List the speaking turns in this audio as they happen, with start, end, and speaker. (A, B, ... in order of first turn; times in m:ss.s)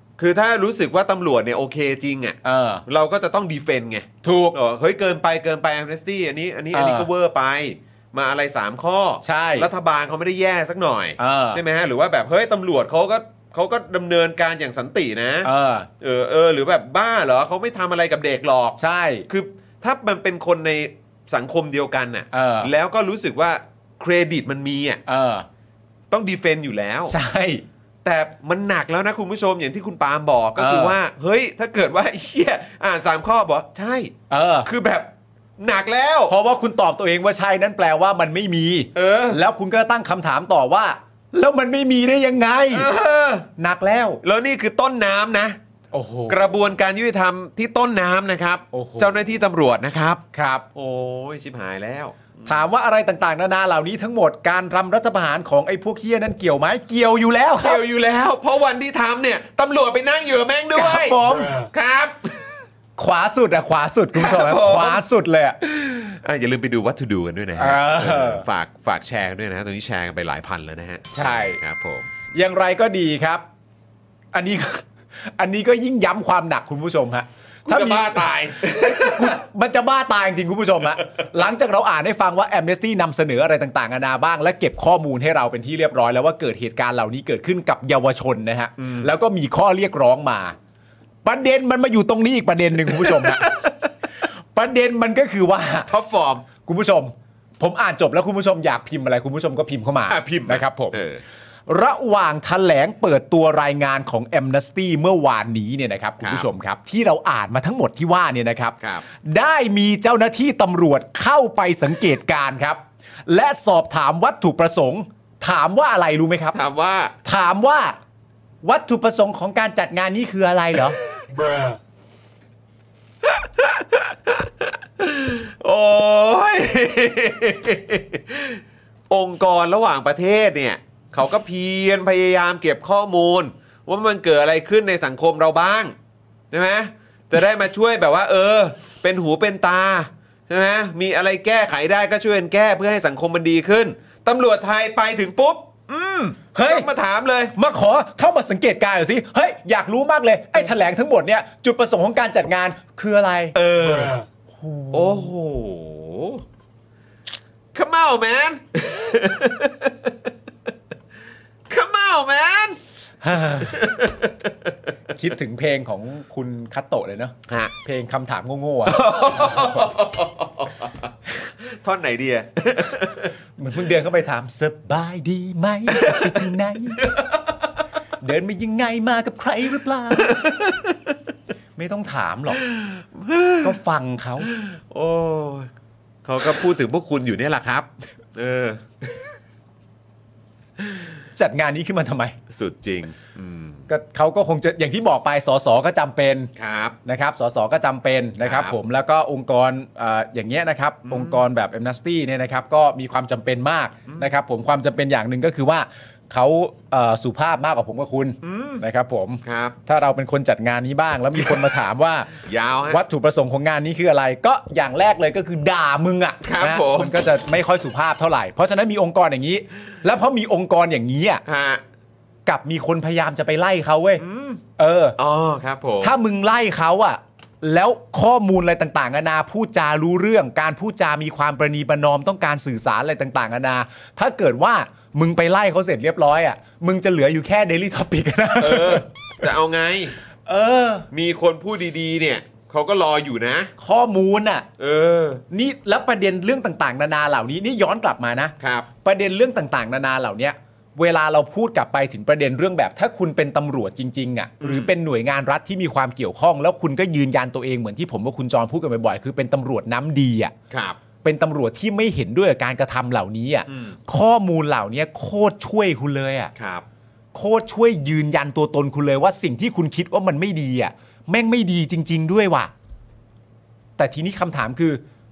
0:00.2-0:25.0 A
0:02.4-0:02.8 B
0:04.2-0:04.6 B
0:06.7-0:07.1 B
0:09.2-0:09.7 B
0:11.2-0:11.6 B
0:15.4-0:15.9 B
0:18.8-0:19.3 B
0:22.3-0:22.7 B
0:25.1-0:25.5 B
0:26.1-0:27.2 A
0:27.1-0:27.6 B
0:28.0-0:36.4 A
0:30.6-0:31.0 B
0:34.3-0:34.7 B
0:36.3-0:42.9 B
0:39.0-0:39.4 A
0:42.7-0:43.5 A
0:43.6-0:44.2 B
0:44.2-0:45.6 A
0:45.9-0:46.4 B
0:46.3-0:50.2 A
0:48.7-0:49.2 B
0:50.3-0:50.6 B
0:50.8-0:52.6 A
0:52.5-0:57.8 B
0:57.6-1:02.6 A
1:00.7-1:01.7 B
1:03.0-1:05.6 B
1:04.2-1:05.0 A
1:05.6-1:12.2 A
1:07.6-1:08.4 B
1:11.1-1:11.6 B
1:12.3-1:13.4 B
1:14.3-1:30.6 B
1:17.7-1:19.4 A
1:28.8-1:29.1 A
1:31.2-1:33.5 B
1:32.9-1:33.8 A
1:34.5-1:35.9 B
1:35.9-1:36.5 A
1:36.6-1:41.0 B
1:40.1-1:41.2 A
1:41.7-1:56.6 B
1:46.2-1:46.5 A
1:48.8-1:49.1 A
1:56.5-1:57.2 A
1:57.2-1:58.0 B
1:58.6-2:01.0 B
2:03.2-2:16.0 A
2:16.5-2:27.6 A
2:26.5-2:26.9 B
2:27.6-2:33.6 B
2:33.6-2:34.2 A
2:34.5-2:35.3 B
2:34.9-2:36.4 A
2:37.7-2:40.3 A
2:41.7-2:42.8 A
2:43.2-2:43.8 B
2:43.5-2:44.7 A
2:45.2-2:49.8 B
2:47.5-2:47.7 A
2:48.9-2:53.3 A
2:53.6-2:57.1 B
2:55.9-2:56.5 A
2:58.2-3:00.4 B
3:00.3-3:01.0 A
3:01.8-3:02.6 B
3:02.7-3:03.8 A
3:03.6-3:04.5 B
3:04.4-3:05.7 A
3:06.2-3:09.2 A
3:11.4-3:12.4 B
3:12.5-3:13.8 A
3:13.9-3:16.5 B
3:16.6-3:17.0 A
3:17.0-3:32.3 B
3:18.4-3:18.8 A
3:21.1-3:21.4 A
3:28.4-3:28.8 A
3:29.4-3:29.8 A
3:32.4-3:33.0 A
3:32.9-3:41.4 B
3:36.4-3:37.2 A
3:41.4-3:41.8 A
3:42.5-3:44.2 B
3:44.2-3:44.6 A
3:44.8-3:45.2 B
3:45.2-3:46.2 A
3:46.0-3:59.1 B
3:58.6-4:00.2 A
4:00.5-4:01.1 B
4:01.1-4:03.7 A
4:03.8-4:04.7 B
4:04.8-4:05.4 A
4:05.5-4:20.5 B
4:08.6-4:08.9 A
4:14.6-4:14.9 A
4:20.7-4:21.0 A
4:21.2-4:26.5 B
4:23.7-4:24.0 A
4:26.6-4:26.9 A
4:27.3-4:32.7 B
4:34.0-4:35.0 B